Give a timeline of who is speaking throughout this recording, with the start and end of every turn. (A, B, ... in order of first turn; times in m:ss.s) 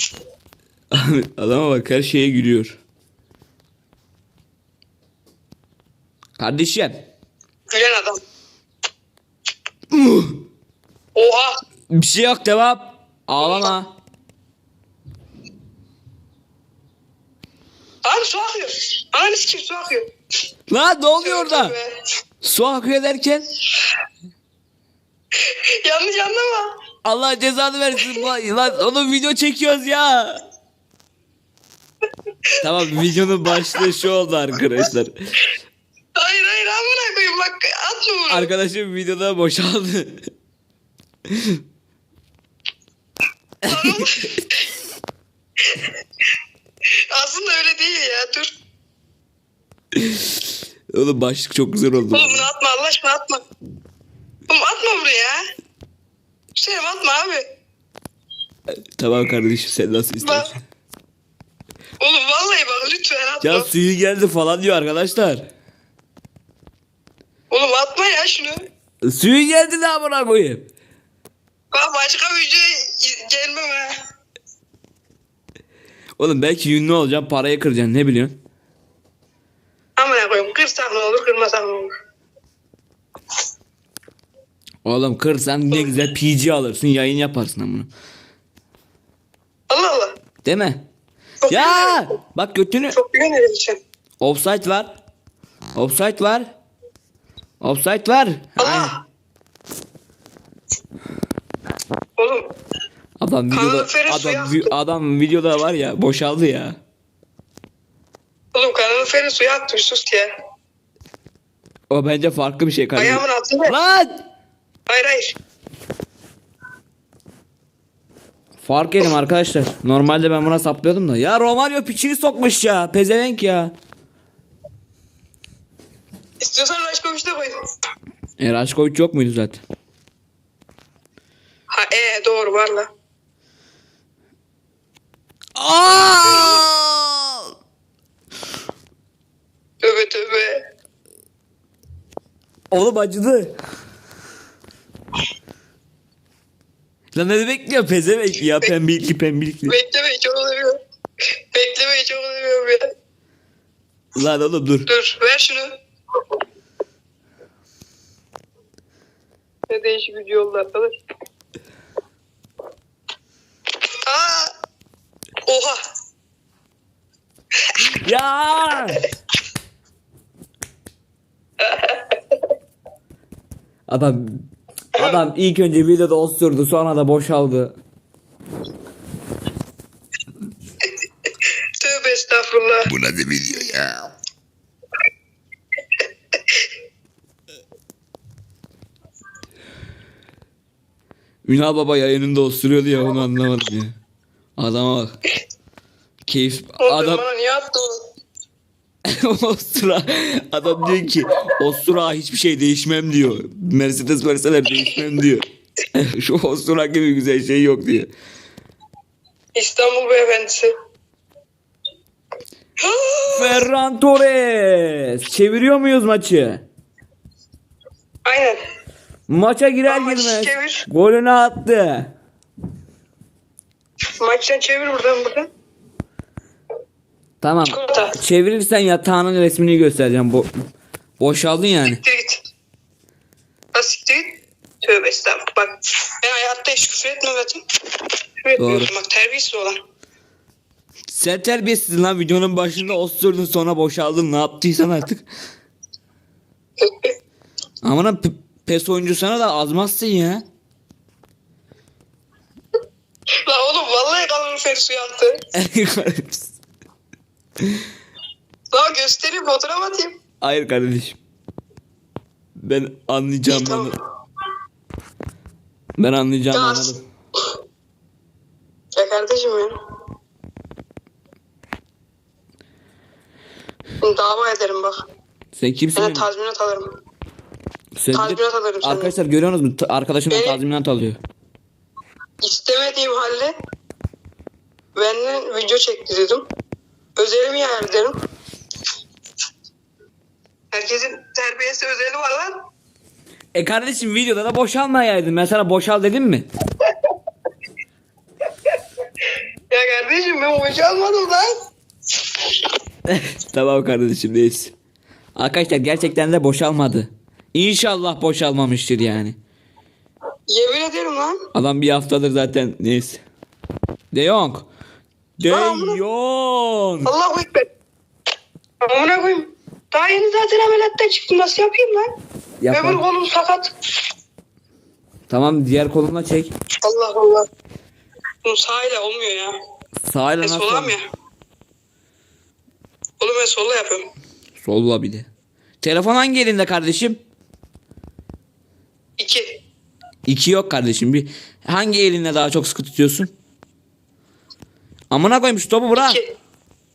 0:00.9-0:02.8 A
0:06.4-0:07.0 A
0:07.7-0:08.2 B
0:09.9-0:10.4 A
0:11.1-0:11.6 B
0:11.9-0:14.0 A
0:13.4-0:13.7 B
0:18.0-0:20.1 B
0:20.7-0:21.7 A
0:21.2-0:22.0 B
0:22.4-0:23.5 A
0:25.4-0:26.7 B
0:27.0-0:30.4 A
0:32.6-0:35.1 A
0:33.5-0:33.8 B
0:36.2-0:38.5 B
0:38.3-0:40.2 A
0:41.3-0:41.6 A
0:43.6-0:44.0 A
0:43.7-0:44.4 B
0:47.1-0:48.5 B
0:50.0-0:50.3 A
0:50.9-0:52.5 A
0:52.1-0:53.4 B
0:54.5-0:55.4 B
0:56.6-0:57.4 B
0:59.0-1:00.6 A
1:00.2-1:00.5 B
1:02.0-1:03.7 B
1:03.4-1:05.4 A
1:07.5-1:08.6 B
1:09.0-1:10.6 A
1:11.7-1:13.9 B
1:16.2-1:18.4 A
1:20.0-1:21.9 B
1:24.8-1:27.9 A
1:29.7-1:30.1 B
1:30.4-1:30.9 A
1:31.4-1:32.0 B
1:31.5-1:33.0 A
1:32.9-1:33.8 B
1:34.2-1:35.0 A
1:35.8-1:36.5 A
1:37.6-1:38.9 A
1:38.6-1:39.0 B
1:42.2-1:42.5 B
1:43.2-1:46.8 A
1:43.5-1:44.7 B
1:48.5-1:50.3 B
1:51.9-1:54.2 A
1:53.0-1:53.8 B
1:54.9-1:55.4 B
1:58.6-2:03.7 A
2:06.4-2:07.6 B
2:08.4-2:09.6 A
2:11.7-2:12.9 B
2:15.6-2:17.5 A
2:16.2-2:16.6 B
2:19.8-2:20.6 B
2:22.7-2:23.5 A
2:27.1-2:29.8 A
2:29.6-2:30.8 B
2:31.5-2:32.8 B
2:34.2-2:34.9 A
2:34.9-2:35.7 B
2:39.7-2:40.9 B
2:44.0-2:44.5 B
2:45.5-2:45.8 B
2:47.9-2:49.1 A
2:51.6-2:52.4 B
2:53.9-2:54.2 A
2:55.0-2:57.7 A
3:01.8-3:02.9 B
3:03.0-3:04.1 A
3:11.5-3:14.0 A
3:14.6-3:15.2 A
3:16.2-3:17.2 A
3:16.8-3:18.0 B
3:19.0-3:28.1 A
3:29.5-3:30.7 B
3:32.8-3:33.7 B
3:33.3-3:36.6 A
3:38.2-3:38.6 B
3:39.3-3:42.1 A
3:39.9-3:40.8 B
3:44.2-3:45.5 B
3:47.4-3:50.5 A
3:47.7-3:48.2 B
3:51.2-3:52.0 A
3:52.0-3:52.4 B
3:53.7-3:59.8 B
3:58.6-3:58.9 A
4:01.1-4:05.2 A
4:06.8-4:07.1 B
4:07.8-4:10.4 A
4:13.5-4:15.4 B
4:15.5-4:16.5 A
4:18.7-4:20.2 B
4:20.4-4:21.2 A
4:22.6-4:24.0 A
4:23.5-4:24.0 B
4:26.0-4:27.0 A
4:26.5-4:27.0 B
4:29.0-4:29.7 B
4:34.0-4:35.0 B
4:35.5-4:36.2 A
4:36.0-4:36.9 B
4:38.0-4:41.2 A
4:38.1-4:39.1 B
4:40.3-4:40.6 B
4:42.4-4:43.5 B
4:45.0-4:46.5 B
4:47.2-4:48.2 B
4:50.7-4:52.6 B
4:53.5-4:56.5 A
4:59.7-5:01.5 B
5:02.3-5:02.6 B
5:03.1-5:04.7 A
5:05.4-5:09.4 A
5:10.5-5:11.4 B
5:11.5-5:13.2 A
5:14.1-5:14.7 A
5:15.4-5:17.1 A
5:15.5-5:16.0 B
5:17.0-5:17.7 B
5:18.8-5:22.1 B
5:22.6-5:23.0 A
5:22.7-5:23.7 B
5:25.3-5:26.5 A
5:26.8-5:27.5 B
5:28.4-5:29.5 B
5:30.0-5:31.0 A
5:30.4-5:31.0 B
5:33.2-5:34.1 B
5:34.6-5:35.3 A
5:35.8-5:37.2 A
5:39.2-5:39.6 B
5:40.3-5:43.3 A
5:45.1-5:46.2 A
5:46.0-5:46.3 B